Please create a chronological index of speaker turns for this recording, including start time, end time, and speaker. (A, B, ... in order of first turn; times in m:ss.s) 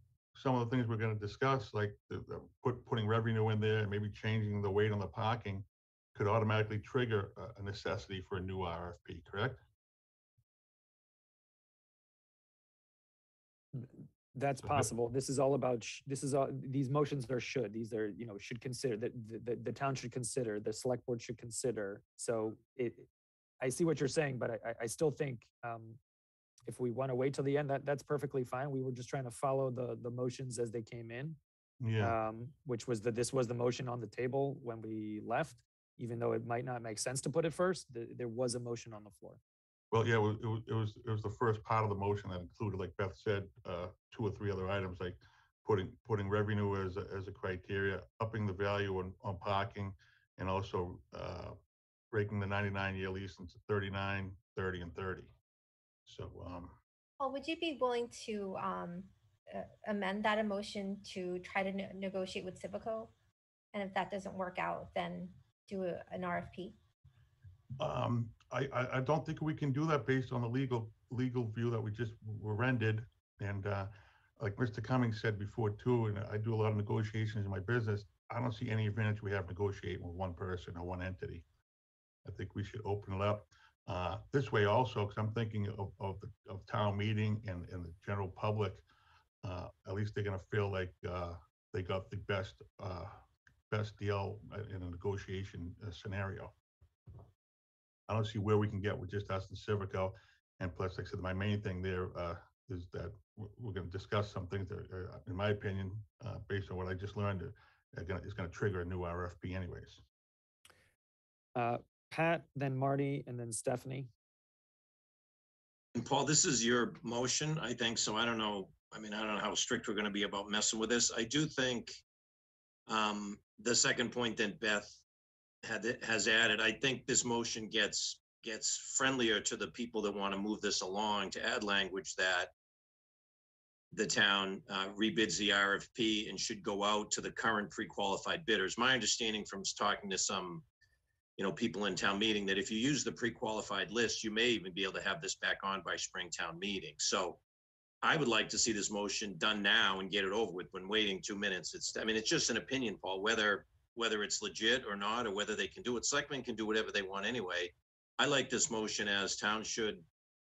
0:00.3-0:09.6 A
0:13.7-0:23.1 B
0:23.6-0:26.0 B
0:26.7-0:31.4 B
0:31.8-0:32.2 A
0:32.0-0:39.4 B
0:39.9-0:51.6 A
0:52.1-0:55.3 A
0:56.1-0:56.8 A
0:57.2-1:03.1 C
1:03.7-1:06.8 C
1:07.8-1:21.4 A
1:22.2-1:28.8 A
1:29.4-1:36.6 A
1:38.1-1:50.0 A
1:51.6-1:54.1 B
1:56.0-2:02.0 D
2:02.9-2:05.0 D
2:05.6-2:12.5 D
2:13.9-2:20.6 D
2:21.4-2:27.4 D
2:28.0-2:40.0 D